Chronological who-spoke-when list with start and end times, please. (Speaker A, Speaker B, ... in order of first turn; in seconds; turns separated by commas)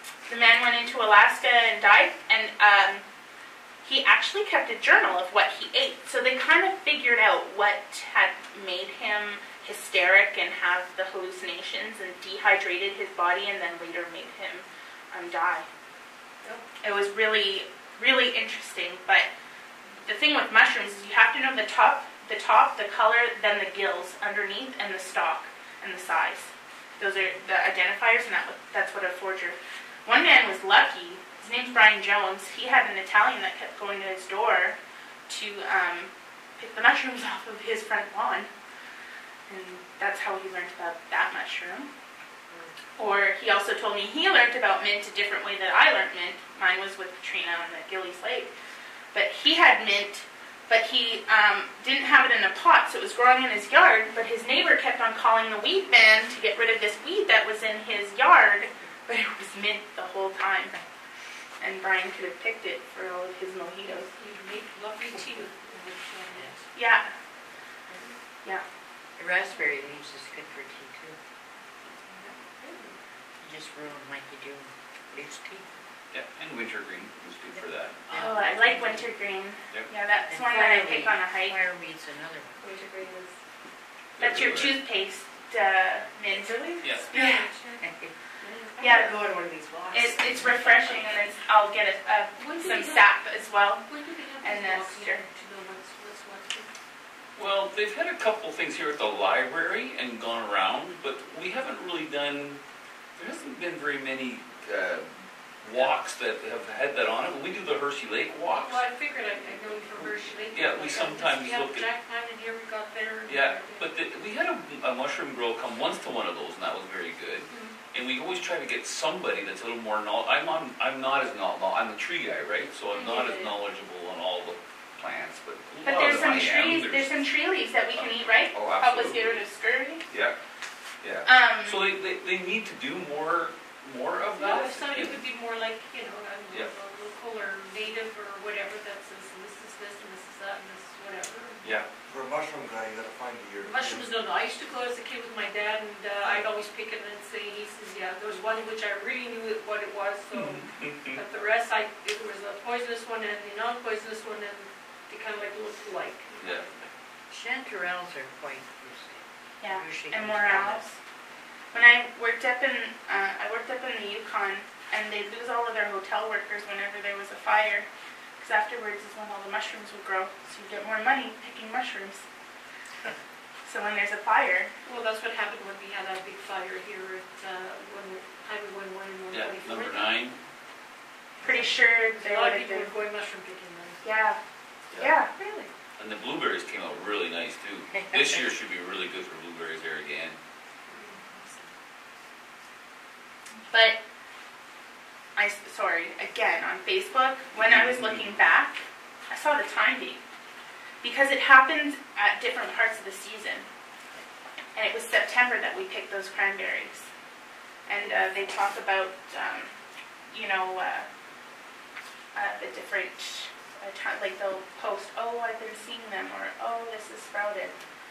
Speaker A: 0.3-3.0, Speaker A: 3.8-15.7, Speaker A: 16.8-19.3, Speaker A: 20.0-34.8, Speaker A: 35.3-38.5, Speaker A: 39.5-41.9, Speaker A: 43.0-48.5, Speaker A: 49.1-60.8, Speaker A: 61.6-64.1, Speaker B: 64.2-66.7, Speaker A: 66.8-67.1, Speaker C: 67.9-68.2, Speaker D: 69.2-71.2, Speaker C: 72.1-73.0, Speaker D: 73.4-75.7, Speaker E: 76.1-79.0, Speaker A: 78.1-81.6, Speaker D: 80.3-82.7, Speaker C: 82.6-83.4, Speaker E: 84.2-84.8, Speaker A: 84.2-87.5, Speaker C: 86.3-87.8, Speaker E: 86.8-87.1, Speaker B: 87.1-87.8, Speaker D: 87.8-88.1, Speaker C: 88.4-91.2, Speaker A: 88.8-89.2, Speaker A: 89.9-93.9, Speaker B: 92.4-93.2, Speaker B: 93.9-96.7, Speaker A: 94.4-95.2, Speaker E: 97.4-102.6, Speaker E: 103.2-108.8, Speaker B: 108.5-113.8, Speaker E: 110.0-111.9, Speaker E: 113.3-127.2, Speaker B: 117.5-117.8, Speaker B: 122.9-123.5, Speaker A: 125.8-130.0, Speaker E: 128.0-129.4, Speaker E: 130.1-130.4, Speaker E: 131.0-135.2, Speaker A: 131.3-131.9, Speaker B: 134.4-141.7, Speaker E: 141.6-141.9, Speaker F: 142.1-144.1, Speaker B: 143.6-156.9, Speaker E: 150.3-151.2, Speaker E: 156.4-156.7, Speaker D: 157.3-160.8, Speaker A: 159.6-161.0, Speaker A: 161.7-167.9, Speaker A: 168.4-172.2, Speaker A: 173.7-174.7, Speaker B: 174.9-180.1, Speaker E: 179.3-180.4, Speaker A: 181.4-182.9, Speaker B: 182.2-184.0, Speaker A: 184.0-184.4, Speaker A: 185.0-185.7, Speaker E: 186.0-190.4, Speaker B: 190.9-191.7, Speaker A: 193.7-194.0, Speaker A: 195.4-200.2, Speaker E: 197.6-198.4, Speaker A: 201.0-203.7, Speaker A: 204.8-207.1, Speaker A: 207.9-209.7, Speaker A: 210.3-211.1, Speaker A: 212.3-217.8